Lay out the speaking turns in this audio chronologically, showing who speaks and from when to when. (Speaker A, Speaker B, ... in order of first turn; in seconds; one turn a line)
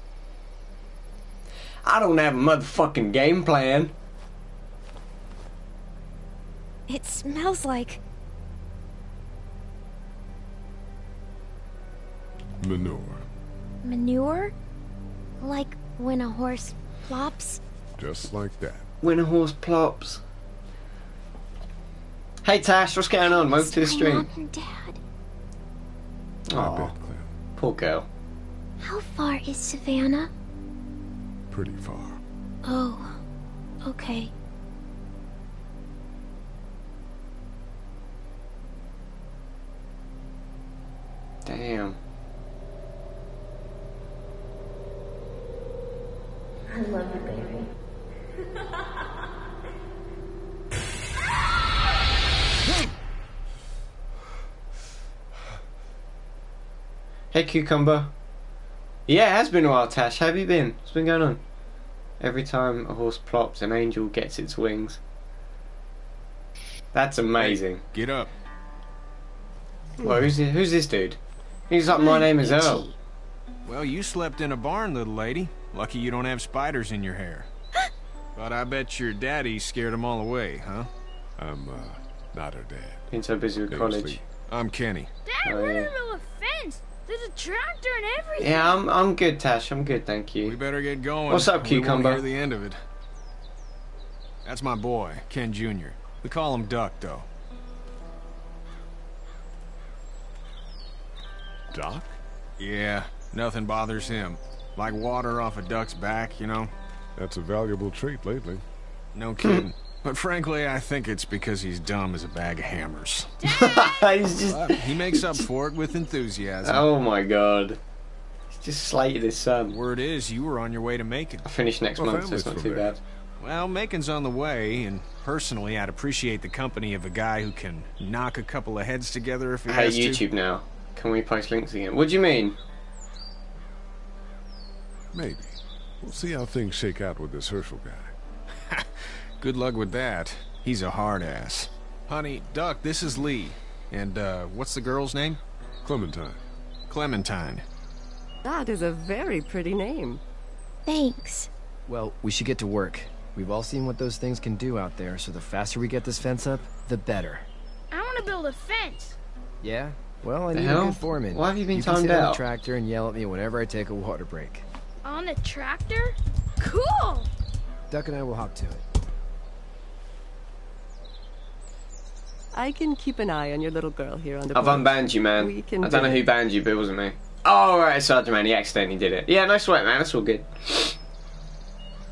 Speaker A: 1.8-3.9
Speaker B: 6.9-8.0
Speaker C: 12.6-13.2
Speaker B: 13.8-14.5
Speaker B: 15.4-17.6
Speaker C: 18.0-18.8
Speaker A: 19.0-20.2
Speaker A: 22.4-24.3
Speaker B: 23.2-25.0
Speaker A: 26.5-26.9
Speaker C: 26.5-27.3
Speaker A: 27.6-28.1
Speaker B: 28.8-30.3
Speaker C: 31.5-32.2
Speaker B: 32.6-33.2
Speaker B: 33.8-34.3
Speaker A: 41.4-42.0
Speaker B: 46.7-47.7
Speaker A: 57.3-58.1
Speaker A: 59.1-61.4
Speaker A: 62.2-65.0
Speaker A: 66.9-67.8
Speaker D: 67.3-68.3
Speaker A: 70.0-71.2
Speaker A: 71.7-72.9
Speaker B: 71.9-72.9
Speaker D: 73.7-77.5
Speaker D: 78.3-80.9
Speaker C: 81.4-83.0
Speaker A: 83.1-84.2
Speaker C: 83.7-84.2
Speaker D: 84.5-85.1
Speaker E: 85.2-88.7
Speaker A: 85.4-85.9
Speaker A: 88.4-90.5
Speaker D: 90.4-92.8
Speaker A: 91.3-92.2
Speaker D: 94.4-97.3
Speaker C: 101.7-102.2
Speaker D: 102.6-106.7
Speaker C: 107.2-108.6
Speaker D: 109.1-113.3
Speaker E: 113.4-114.0
Speaker A: 113.6-115.5
Speaker D: 114.4-116.8
Speaker A: 116.6-117.8
Speaker A: 118.5-119.8
Speaker D: 119.7-121.5
Speaker A: 121.4-123.0
Speaker C: 122.0-123.0
Speaker D: 123.4-130.2
Speaker A: 129.7-132.5
Speaker C: 135.1-138.1
Speaker D: 138.7-145.4
Speaker C: 145.8-146.4
Speaker D: 146.9-147.6
Speaker F: 148.4-150.2
Speaker B: 150.8-151.5
Speaker G: 151.9-157.5
Speaker E: 157.9-159.2
Speaker G: 159.6-164.6
Speaker A: 160.5-162.4
Speaker E: 165.0-167.3
Speaker G: 167.9-168.8
Speaker F: 172.5-176.2
Speaker A: 174.5-181.0